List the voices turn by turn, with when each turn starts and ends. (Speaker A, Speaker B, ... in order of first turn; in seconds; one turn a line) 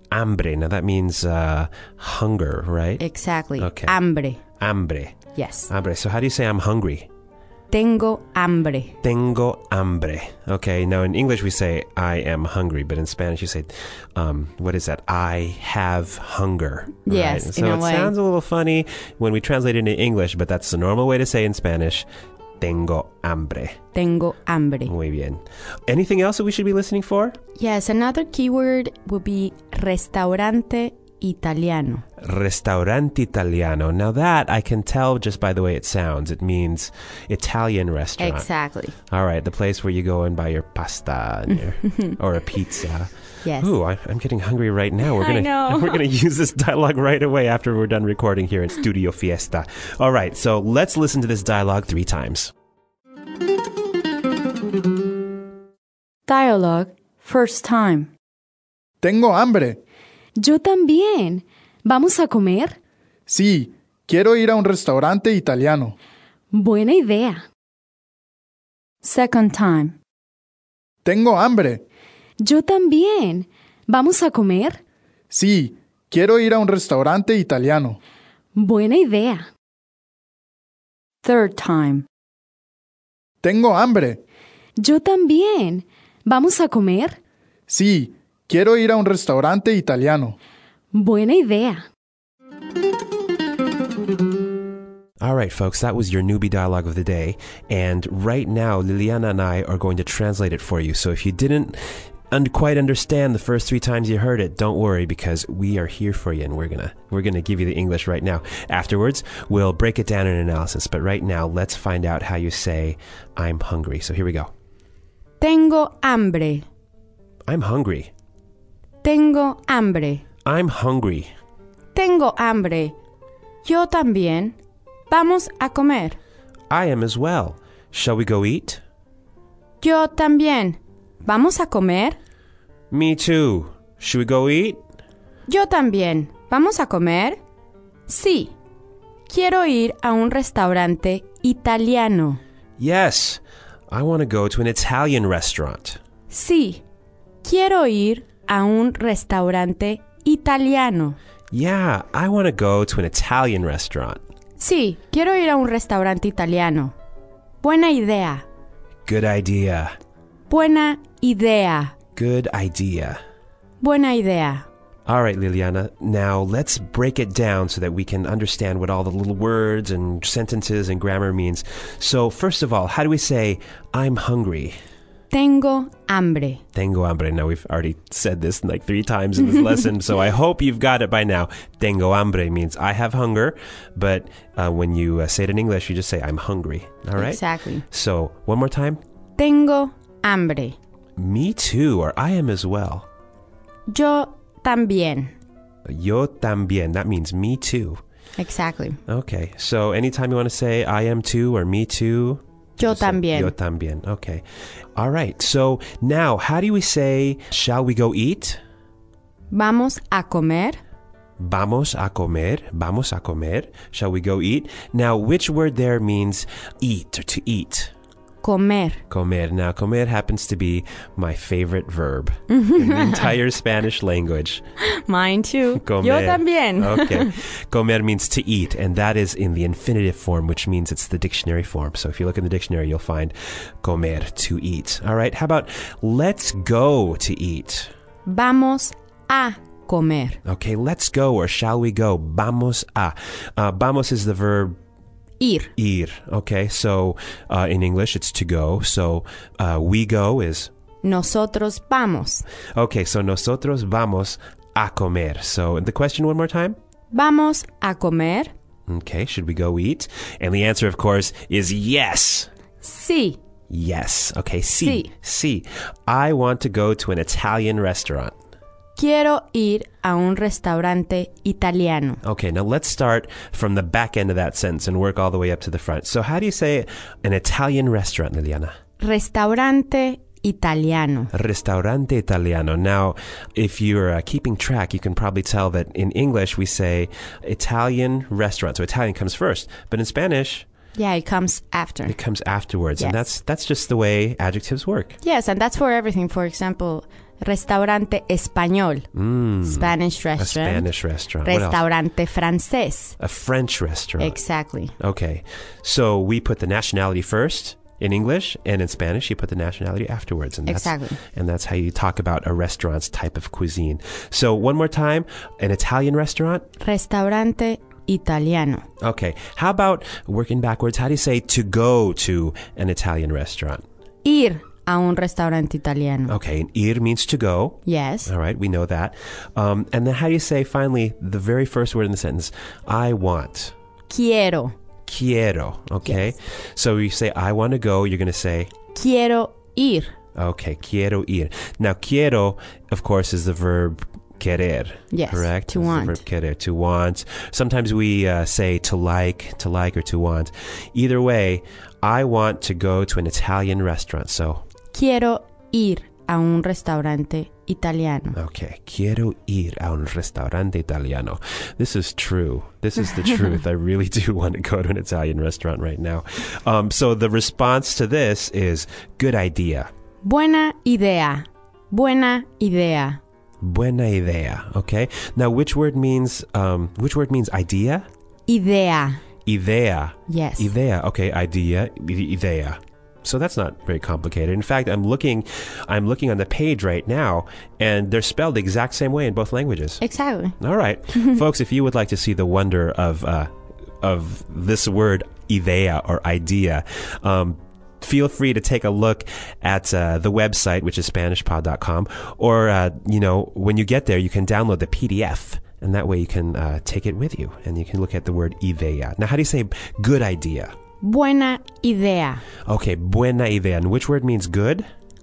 Speaker A: 0.1-3.0
Speaker B: 3.0-4.4
Speaker A: 3.6-4.0
Speaker A: 4.6-5.2
Speaker B: 5.3-5.7
Speaker A: 5.7-7.1
Speaker B: 7.7-8.9
Speaker A: 9.0-22.1
Speaker B: 17.1-18.1
Speaker A: 22.6-23.8
Speaker B: 23.9-24.9
Speaker A: 24.9-27.4
Speaker B: 27.6-32.0
Speaker A: 32.2-38.5
Speaker B: 38.2-38.9
Speaker A: 39.1-52.5
Speaker B: 43.4-43.7
Speaker B: 45.1-46.0
Speaker B: 56.3-58.1
Speaker C: 59.0-59.8
Speaker D: 60.4-62.8
Speaker C: 63.3-66.0
Speaker D: 66.5-67.4
Speaker B: 69.0-69.9
Speaker C: 71.0-71.8
Speaker D: 72.4-74.8
Speaker C: 75.3-78.0
Speaker D: 78.6-79.5
Speaker B: 81.2-82.0
Speaker C: 83.4-84.2
Speaker D: 84.8-87.2
Speaker C: 87.7-90.3
Speaker D: 90.9-91.8
Speaker A: 95.2-114.5
Speaker B: 115.4-116.7
Speaker A: 117.5-118.1
Speaker B: 119.0-120.2
Speaker A: 120.5-121.3
Speaker B: 121.9-122.9
Speaker B: 123.7-124.6
Speaker B: 125.1-126.2
Speaker A: 126.7-128.8
Speaker B: 129.8-132.2
Speaker A: 132.9-134.8
Speaker B: 135.5-137.4
Speaker B: 138.1-138.5
Speaker B: 139.3-142.4
Speaker A: 142.8-146.0
Speaker B: 146.3-146.8
Speaker B: 147.4-151.2
Speaker A: 151.5-154.2
Speaker B: 154.6-156.9
Speaker B: 157.6-158.4
Speaker A: 159.0-159.9
Speaker B: 160.5-161.9
Speaker A: 162.2-163.2
Speaker B: 163.8-164.7
Speaker A: 165.1-174.8
Speaker B: 175.3-176.6
Speaker A: 176.8-189.0
Speaker B: 187.2-187.8
Speaker B: 189.4-190.8
Speaker A: 191.2-193.1
Speaker B: 193.9-195.3
Speaker A: 195.8-198.0
Speaker B: 198.4-199.0
Speaker A: 199.1-204.4
Speaker B: 202.8-203.5
Speaker A: 205.0-208.6
Speaker B: 209.5-210.8
Speaker A: 211.4-217.9
Speaker B: 218.4-219.0
Speaker A: 219.1-224.6
Speaker B: 222.5-223.3
Speaker B: 224.8-227.4
Speaker A: 225.8-237.9
Speaker B: 238.3-240.4
Speaker A: 240.4-244.8
Speaker B: 245.4-245.7
Speaker A: 245.8-250.7
Speaker B: 251.0-252.4
Speaker A: 252.7-256.8
Speaker B: 257.1-258.5
Speaker A: 258.9-262.5
Speaker B: 262.8-263.4
Speaker A: 263.7-268.3
Speaker B: 264.8-265.1
Speaker B: 269.0-272.2
Speaker A: 272.2-278.7
Speaker B: 279.0-281.3
Speaker A: 281.3-290.6
Speaker B: 290.9-292.1
Speaker A: 292.1-295.2
Speaker B: 293.0-293.2
Speaker B: 295.2-299.1
Speaker A: 299.1-301.8
Speaker B: 299.6-300.9
Speaker B: 301.4-303.1
Speaker A: 303.2-304.4
Speaker B: 304.2-304.9
Speaker A: 305.0-316.6
Speaker B: 310.7-311.2
Speaker B: 316.8-318.8
Speaker A: 319.0-323.8
Speaker B: 324.2-326.3
Speaker A: 326.3-333.7
Speaker B: 327.9-328.3
Speaker B: 334.1-334.7
Speaker A: 335.1-338.7
Speaker B: 338.9-340.1
Speaker A: 340.4-354.6
Speaker B: 345.1-346.2
Speaker B: 354.9-358.4
Speaker A: 358.4-369.9
Speaker B: 370.2-373.2
Speaker A: 373.6-378.1
Speaker B: 378.5-379.2
Speaker A: 379.5-390.0
Speaker B: 380.3-380.7
Speaker B: 390.0-390.6
Speaker A: 390.6-393.5
Speaker A: 394.0-410.7
Speaker B: 411.0-412.4
Speaker A: 412.6-414.9